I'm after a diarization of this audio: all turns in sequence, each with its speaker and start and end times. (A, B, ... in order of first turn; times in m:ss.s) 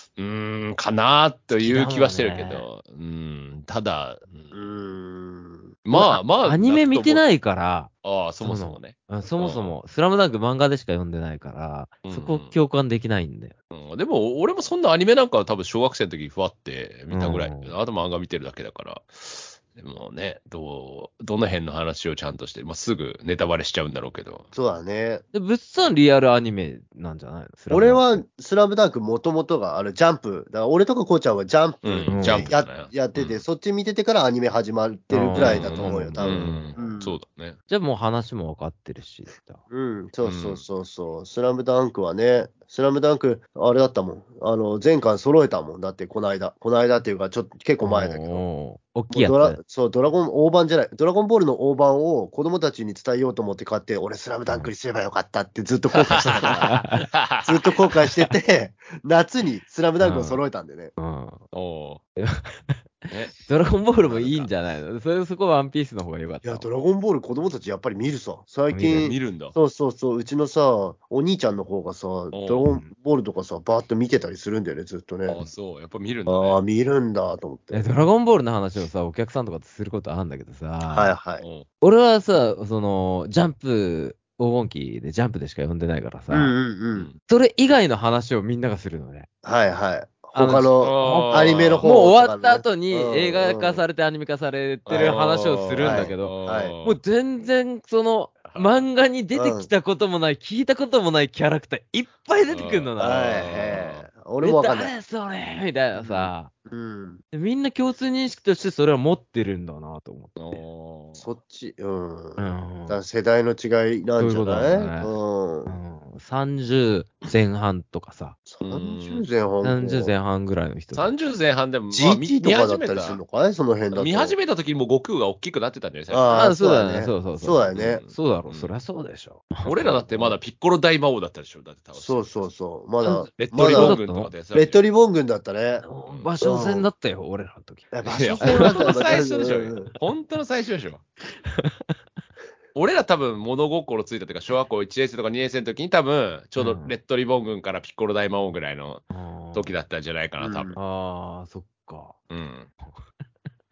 0:00.2-0:04.6 A
0:01.6-0:02.7 B
0:04.5-0:05.7 C
0:05.8-0:07.3 A
0:05.9-0:13.5 B
0:08.0-0:09.8 A
0:12.0-0:12.6 A
0:13.7-0:24.5 A
0:17.1-0:17.7 B
0:24.5-0:25.2 C
0:25.3-0:28.2 B
0:27.7-0:37.2 C
0:31.8-0:33.4 A
0:32.1-0:32.5 B
0:35.1-0:36.9 B
0:35.3-0:37.6 A
0:37.7-0:39.6 B
0:39.7-0:48.4 C
0:40.2-0:40.6 A
0:47.8-0:49.6 B
0:49.1-0:56.8 C
0:56.1-0:57.4 A
0:56.2-0:57.1 B
0:57.4-1:00.9 C
1:00.0-1:00.4 B
1:01.0-1:01.4 B
1:01.5-1:02.0 A
1:02.2-1:02.8 B
1:03.4-1:06.7 B
1:04.0-1:04.5 A
1:06.4-1:15.4 C
1:08.7-1:09.1 B
1:09.0-1:09.6 A
1:12.3-1:12.6 A
1:15.3-1:16.6 A
1:16.3-1:17.8 C
1:17.7-1:21.2 B
1:20.8-1:21.4 C
1:21.4-1:21.7 A
1:21.8-1:26.6 B
1:26.3-1:27.1 C
1:26.9-1:27.2 A
1:27.3-1:29.3 B
1:29.4-1:33.8 C
1:30.4-1:43.6 B
1:30.8-1:31.9 A
1:34.9-1:37.0 A
1:34.9-1:35.2 C
1:35.8-1:36.7 C
1:38.4-1:38.8 A
1:39.3-1:39.7 C
1:42.5-1:44.0 A
1:43.0-1:45.0 C
1:44.4-1:46.5 B
1:45.9-1:47.2 C
1:47.3-1:50.6 B
1:50.4-1:51.2 A
1:51.2-1:55.8 C
1:52.4-1:53.0 B
1:54.2-1:55.1 B
1:55.7-1:58.4 B
1:58.5-2:00.1 C
1:58.6-1:59.3 A
1:59.6-2:01.1 B
2:00.9-2:03.2 A
2:01.9-2:04.4 C
2:03.9-2:06.4 A
2:06.1-2:08.0 C
2:06.3-2:10.4 B
2:07.7-2:08.7 A
2:09.6-2:12.5 A
2:12.0-2:14.0 C
2:13.0-2:14.3 B
2:13.3-2:14.8 A
2:14.5-2:15.9 C
2:15.8-2:19.2 B
2:16.0-2:16.3 A
2:16.4-2:16.9 C
2:17.9-2:19.9 C
2:18.0-2:21.0 A
2:21.6-2:22.0 B
2:22.8-2:29.0 A
2:26.6-2:27.0 B
2:29.1-2:29.7 B
2:29.5-2:30.7 A
2:30.4-2:30.8 C
2:30.8-2:32.2 B
2:32.3-2:32.7 A